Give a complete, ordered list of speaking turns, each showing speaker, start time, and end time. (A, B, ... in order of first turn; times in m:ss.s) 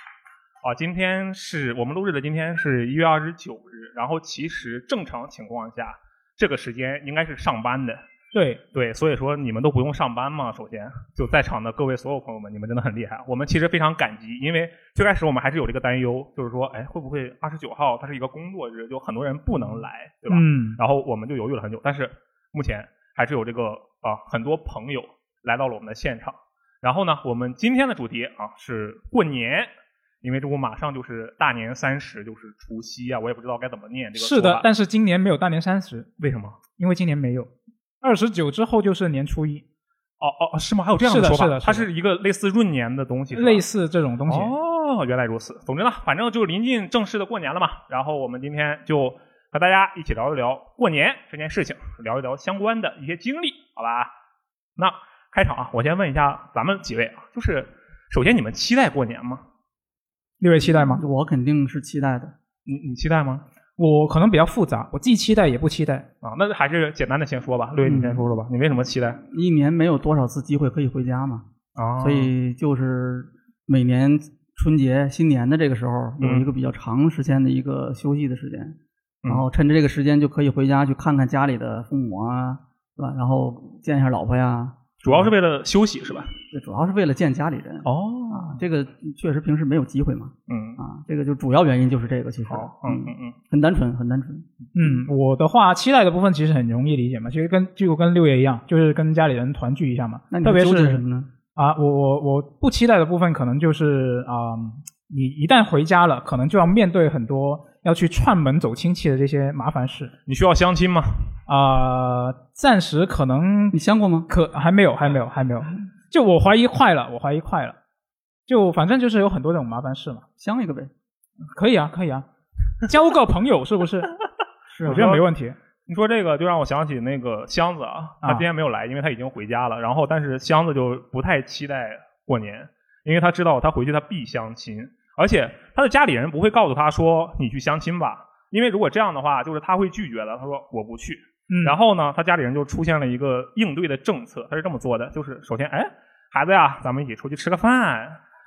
0:00.6-0:08.0 A
0:08.3-0:08.6 B
0:08.7-0:29.7 A
0:20.3-0:20.8 B
0:30.2-0:34.7 A
0:34.2-0:36.1 B
0:36.2-0:36.6 A
0:36.8-0:37.5 B
0:38.0-0:39.6 B
0:40.2-0:43.6 A
0:41.0-0:41.9 B
0:43.3-0:44.5 B
0:44.3-0:54.1 A
0:54.8-0:59.4 A
1:00.4-1:01.0 B
1:00.7-1:02.3 C
1:02.7-1:03.4 A
1:03.8-1:06.1 B
1:06.2-1:09.2 A
1:07.8-1:08.3 C
1:09.2-1:11.4 C
1:11.8-1:12.3 A
1:12.0-1:25.3 C
1:16.2-1:16.5 A
1:25.0-1:26.3 A
1:26.5-1:34.5 C
1:27.8-1:28.6 A
1:30.5-1:30.8 A
1:32.5-1:33.4 A
1:34.8-1:41.0 B
1:40.3-1:41.3 C
1:41.6-1:50.1 B
1:50.3-1:51.3 A
1:51.5-1:53.8 B
1:53.7-1:54.3 C
1:54.3-1:57.8 B
1:58.5-2:00.2 B
2:00.4-2:00.9 C
2:01.6-2:02.3 B
2:02.8-2:04.1 B
2:04.7-2:05.2 C
2:04.9-2:05.6 B
2:04.9-2:05.2 A
2:05.9-2:28.2 A
2:21.5-2:21.8 B